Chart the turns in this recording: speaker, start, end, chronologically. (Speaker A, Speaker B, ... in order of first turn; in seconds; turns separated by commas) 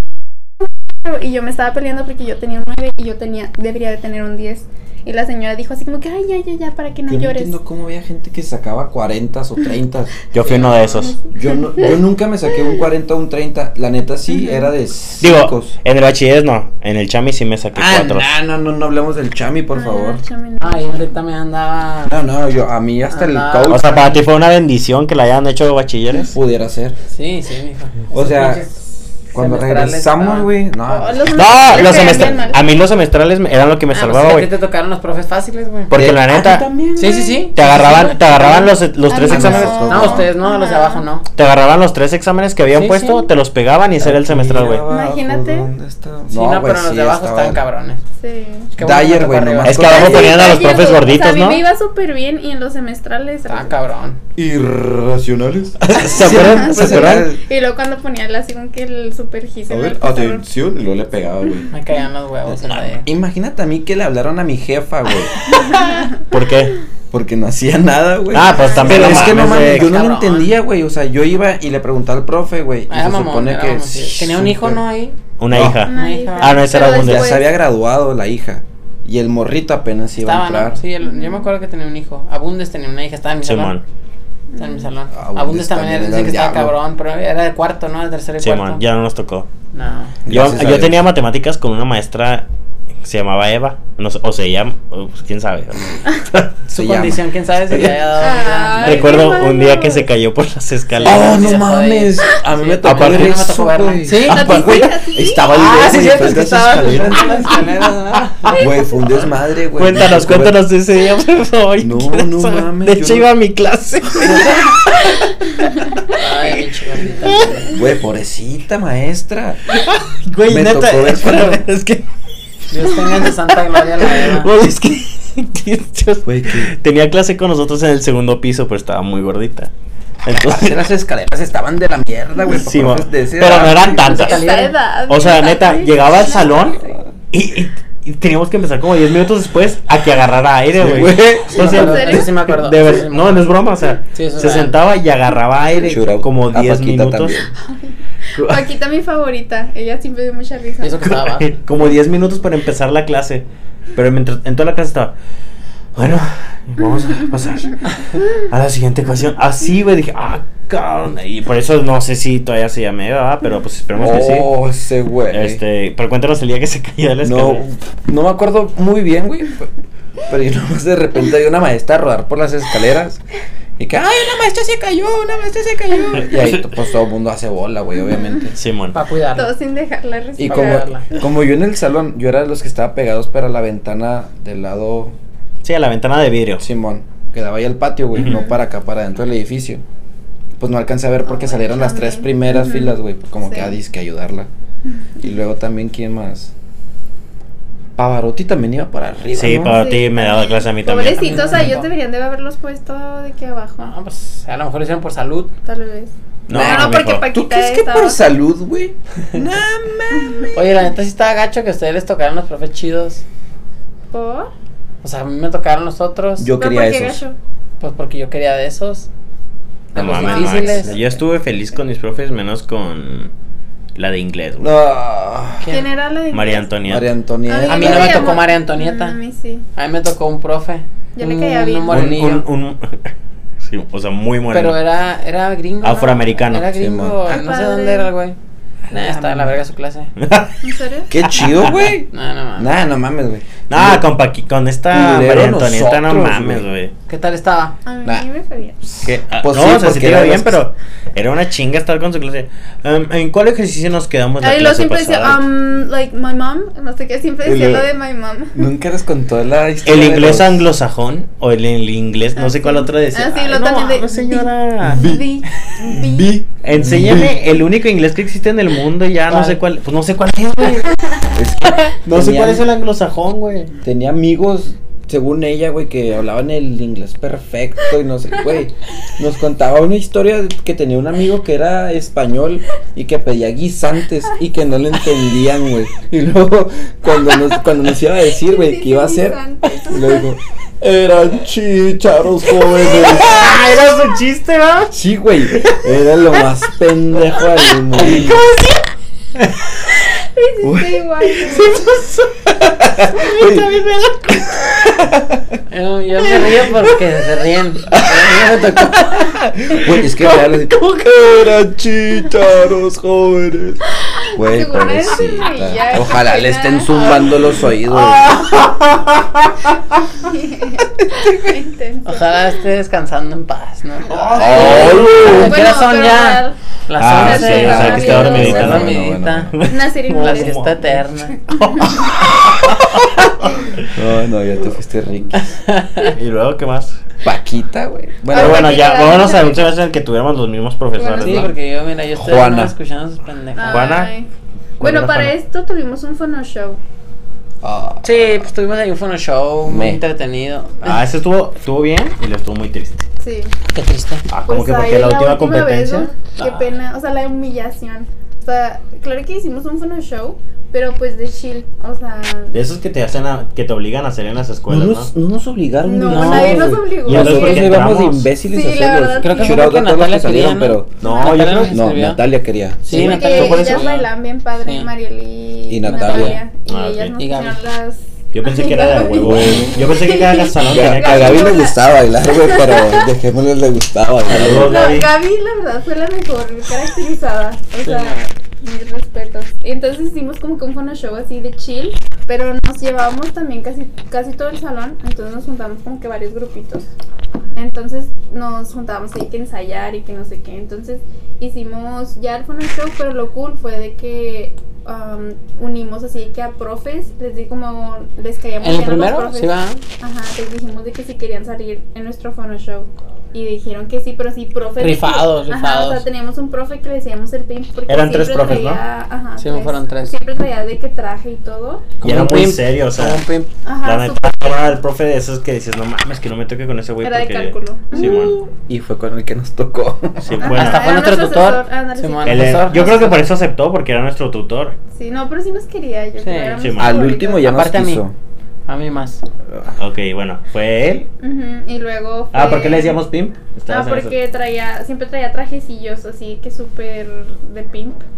Speaker A: 1.0-7.6, Speaker B: 7.1-10.2, Speaker C: 10.3-11.2, Speaker D: 10.4-10.8, Speaker A: 10.6-12.0, Speaker B: 11.3-15.8, Speaker A: 14.3-14.7, Speaker C: 15.2-18.3, Speaker B: 17.8-20.2, Speaker A: 19.7-21.1, Speaker D: 20.6-22.1, Speaker B: 22.1-24.1, Speaker D: 23.1-24.2, Speaker C: 23.7-26.4, Speaker B: 26.3-27.0, Speaker D: 27.1-30.6, Speaker B: 28.1-28.6, Speaker B: 29.3-32.5, Speaker A: 30.9-32.6, Speaker C: 31.3-34.5, Speaker D: 33.9-35.9, Speaker C: 35.9-36.7, Speaker B: 35.9-38.5, Speaker D: 37.0-38.7, Speaker C: 37.5-40.1, Speaker A: 39.1-41.1, Speaker B: 39.2-40.3, Speaker D: 39.9-41.3, Speaker C: 41.4-44.9, Speaker D: 42.7-43.3, Speaker B: 44.0-47.6, Speaker A: 44.9-45.7, Speaker D: 46.3-48.0, Speaker A: 48.2-48.7, Speaker D: 48.8-49.9, Speaker B: 48.8-50.6, Speaker C: 49.6-51.6, Speaker A: 49.9-53.8, Speaker D: 53.5-54.2, Speaker B: 54.4-57.4, Speaker C: 55.8-57.3, Speaker A: 56.1-60.4, Speaker B: 59.7-61.7, Speaker D: 61.7-63.1, Speaker B: 62.5-65.8, Speaker A: 65.5-66.2, Speaker C: 65.7-66.8, Speaker B: 67.1-74.8, Speaker C: 68.3-70.0, Speaker A: 68.4-69.2, Speaker D: 68.8-70.5, Speaker D: 72.9-75.2, Speaker C: 75.4-77.4, Speaker B: 75.5-75.8, Speaker A: 75.9-77.5, Speaker D: 75.9-76.7, Speaker B: 76.8-80.8, Speaker D: 80.2-83.8, Speaker A: 81.0-81.5, Speaker C: 83.4-83.8, Speaker A: 84.5-84.9, Speaker D: 84.6-88.8, Speaker B: 85.1-86.8, Speaker C: 88.4-89.5, Speaker D: 89.7-90.2, Speaker B: 90.2-91.1, Speaker C: 90.3-92.5, Speaker C: 93.0-96.5, Speaker D: 96.7-99.2, Speaker B: 96.7-98.0, Speaker A: 98.2-100.1, Speaker C: 98.7-101.6, Speaker D: 101.0-104.6, Speaker B: 101.0-107.6, Speaker C: 102.8-103.4, Speaker A: 104.2-105.5, Speaker C: 104.3-104.9, Speaker D: 105.5-108.7, Speaker A: 108.5-109.2, Speaker B: 108.5-110.6, Speaker C: 109.8-115.3, Speaker B: 111.8-113.3, Speaker D: 116.1-117.8, Speaker C: 117.2-117.6, Speaker B: 117.7-119.6, Speaker C: 119.7-122.0, Speaker B: 120.5-121.6, Speaker D: 122.7-124.5, Speaker C: 124.0-129.7, Speaker B: 126.2-126.7, Speaker C: 130.2-130.8, Speaker B: 130.3-134.2, Speaker C: 132.5-134.5, Speaker D: 134.0-134.8, Speaker A: 134.1-137.0, Speaker C: 135.1-136.8, Speaker B: 136.8-137.1, Speaker C: 137.3-147.5, Speaker B: 140.8-142.1, Speaker D: 141.5-143.5, Speaker A: 141.6-142.3, Speaker D: 144.1-144.8, Speaker B: 145.8-147.5, Speaker A: 147.6-151.1, Speaker C: 148.3-148.7, Speaker D: 150.8-151.6, Speaker C: 151.1-155.1, Speaker C: 155.9-164.5, Speaker B: 164.0-165.6, Speaker C: 165.3-167.6, Speaker B: 167.2-169.7, Speaker B: 170.3-173.2, Speaker B: 173.8-178.6, Speaker C: 176.3-176.7, Speaker A: 178.0-178.4, Speaker C: 178.5-179.0, Speaker D: 178.9-179.5, Speaker A: 179.3-180.9, Speaker B: 180.4-185.2, Speaker D: 180.4-181.1, Speaker C: 185.6-186.6, Speaker B: 186.6-189.8, Speaker A: 188.2-188.6, Speaker B: 190.6-194.5, Speaker A: 191.3-193.8, Speaker B: 195.2-196.5, Speaker B: 198.0-199.8, Speaker C: 199.3-201.7, Speaker A: 199.6-203.9, Speaker D: 201.1-201.9, Speaker D: 203.8-205.5, Speaker A: 205.7-208.2, Speaker C: 206.5-207.3, Speaker B: 206.5-210.5, Speaker A: 210.1-210.5, Speaker D: 210.5-213.2, Speaker A: 214.1-214.5, Speaker D: 215.0-216.5, Speaker B: 216.4-217.2, Speaker A: 216.6-217.4, Speaker D: 217.8-219.1, Speaker D: 219.9-221.1, Speaker C: 219.9-223.3, Speaker A: 220.0-220.9, Speaker C: 223.9-224.7, Speaker B: 224.6-225.7, Speaker D: 225.6-225.9, Speaker A: 225.7-226.7, Speaker C: 226.3-227.1, Speaker B: 226.8-228.4, Speaker A: 227.5-229.7, Speaker D: 227.7-229.2, Speaker D: 229.8-232.5, Speaker A: 231.2-232.1, Speaker C: 231.9-234.8, Speaker D: 234.5-238.4, Speaker C: 235.8-236.7, Speaker B: 236.8-237.4, Speaker A: 237.3-238.1, Speaker B: 238.8-239.6, Speaker D: 238.9-240.1, Speaker C: 240.2-240.6, Speaker A: 240.6-241.1, Speaker B: 241.1-244.1, Speaker C: 241.2-241.7, Speaker D: 242.1-242.7, Speaker C: 243.7-246.9, Speaker B: 244.9-246.7, Speaker D: 247.1-247.8, Speaker A: 247.8-248.8, Speaker B: 248.8-250.6, Speaker C: 249.0-255.4, Speaker A: 254.4-258.7, Speaker B: 257.4-257.9, Speaker B: 258.5-260.7, Speaker C: 259.9-265.1, Speaker A: 262.4-266.4, Speaker B: 264.8-267.4, Speaker C: 266.6-270.9, Speaker D: 269.3-269.6, Speaker B: 271.3-272.7, Speaker C: 271.9-273.7, Speaker B: 273.8-293.6, Speaker A: 288.4-290.3, Speaker C: 292.9-295.0, Speaker A: 292.9-293.5, Speaker B: 294.9-298.4, Speaker C: 295.5-295.8, Speaker C: 298.0-298.9, Speaker A: 300.2-301.7, Speaker B: 300.6-301.8, Speaker C: 301.4-302.4, Speaker B: 302.4-305.6, Speaker C: 303.0-304.6, Speaker D: 305.7-309.4, Speaker B: 307.9-313.8, Speaker A: 314.2-317.5, Speaker B: 314.3-318.5, Speaker C: 317.9-320.0, Speaker A: 320.1-322.5, Speaker D: 322.1-329.6, Speaker C: 324.1-325.6, Speaker A: 324.2-326.6, Speaker B: 324.3-325.6, Speaker C: 327.0-329.0, Speaker B: 327.0-329.6, Speaker A: 327.1-328.8, Speaker C: 329.5-333.9, Speaker A: 329.6-330.7, Speaker D: 330.1-331.4, Speaker A: 331.5-332.1, Speaker B: 333.9-335.5, Speaker D: 335.7-336.1, Speaker C: 336.0-337.0, Speaker B: 337.2-339.0, Speaker A: 338.3-339.8, Speaker C: 338.3-341.5, Speaker A: 341.0-341.5, Speaker D: 341.2-344.0, Speaker B: 342.1-342.8, Speaker A: 343.6-346.8, Speaker C: 343.7-344.1, Speaker C: 344.8-345.4, Speaker B: 347.6-348.5, Speaker D: 348.0-351.1, Speaker B: 349.6-350.0, Speaker C: 350.8-353.1, Speaker A: 353.2-353.5, Speaker D: 353.7-354.3, Speaker C: 354.3-356.1, Speaker A: 354.5-362.6, Speaker D: 356.4-356.8, Speaker C: 362.5-365.1, Speaker B: 364.7-370.9, Speaker A: 365.8-367.8, Speaker D: 366.1-366.8, Speaker C: 367.0-368.3, Speaker A: 368.5-369.7, Speaker D: 369.2-372.2, Speaker C: 371.0-371.8, Speaker A: 371.0-371.5, Speaker B: 371.7-372.9, Speaker C: 372.9-374.0, Speaker D: 372.9-374.9, Speaker A: 372.9-383.1, Speaker B: 375.7-376.4, Speaker D: 375.8-376.4, Speaker C: 376.7-377.2, Speaker D: 377.2-377.6, Speaker C: 378.3-381.7, Speaker B: 379.1-379.8, Speaker B: 380.7-384.8, Speaker C: 384.3-385.1, Speaker A: 384.4-396.9, Speaker D: 387.8-388.2, Speaker A: 397.6-421.9, Speaker D: 408.6-409.8, Speaker D: 414.8-416.1, Speaker C: 417.9-418.8, Speaker D: 419.4-420.1, Speaker C: 422.0-423.2, Speaker D: 422.0-423.5, Speaker A: 423.6-424.8, Speaker C: 423.8-428.4, Speaker A: 427.0-428.2, Speaker B: 427.9-430.4, Speaker C: 430.2-430.9, Speaker A: 430.4-433.2, Speaker D: 430.4-433.2, Speaker C: 432.2-434.8, Speaker A: 434.9-437.5, Speaker D: 436.2-436.6, Speaker C: 436.6-437.0, Speaker B: 436.8-438.1, Speaker D: 437.3-438.0, Speaker D: 438.7-439.2, Speaker C: 439.8-441.1, Speaker A: 441.2-443.0, Speaker C: 442.3-444.2, Speaker A: 443.7-448.1